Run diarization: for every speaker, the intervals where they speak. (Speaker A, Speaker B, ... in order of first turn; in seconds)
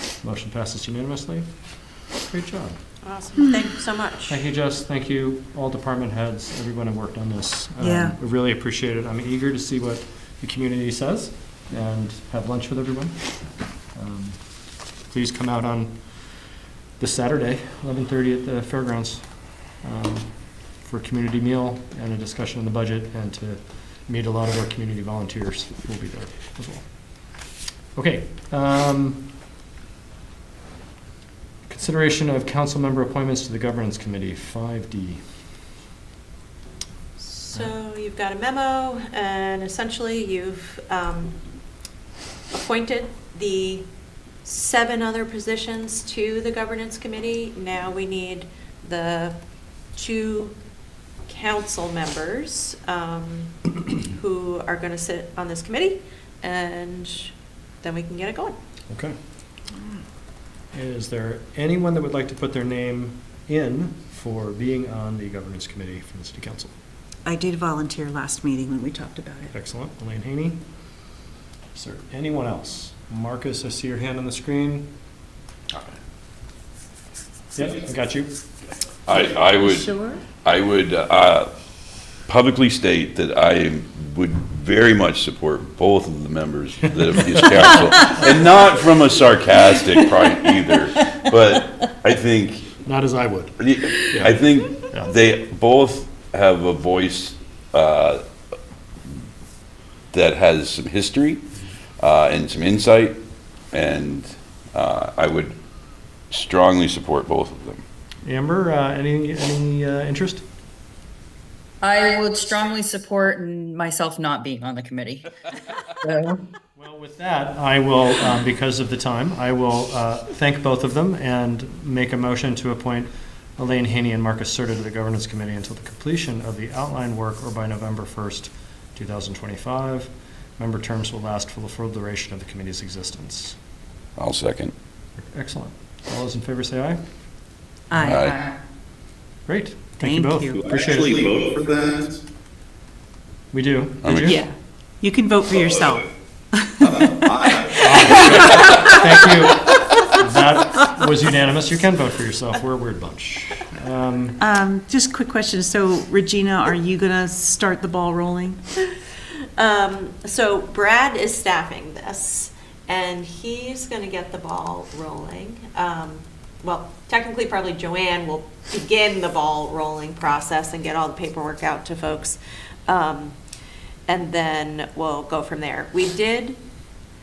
Speaker A: 0.2-1.5, 2.1-2.8, 4.3-14.4, 15.0-16.1, 17.0-26.9, 27.9-29.3, 31.7-35.2, 58.9-59.1, 60.7-66.7, 69.5-70.6, 71.7-74.9, 77.5-78.3, 92.8-94.4, 108.2-110.4, 116.8-133.6, 135.2-137.0, 139.5-141.4, 143.5-144.4, 147.7-154.4
Speaker B: 3.0-4.4, 37.2-41.4, 42.5-43.9, 44.4-49.4, 49.9-50.5, 51.2-58.6, 159.6-173.4, 174.1-176.6
Speaker C: 7.8-8.1, 67.2-69.5, 137.9-138.2, 140.0-140.6, 144.3-147.3, 148.3-148.9, 154.4-158.6
Speaker D: 79.1-81.5, 82.3-92.7, 93.6-98.2, 100.1-101.4, 102.0-103.2, 103.7-105.5, 106.3-107.8, 134.2-134.7, 138.0-138.4, 144.0-144.4
Speaker E: 111.8-115.2, 116.0-116.4
Speaker F: 140.6-142.2, 146.9-147.6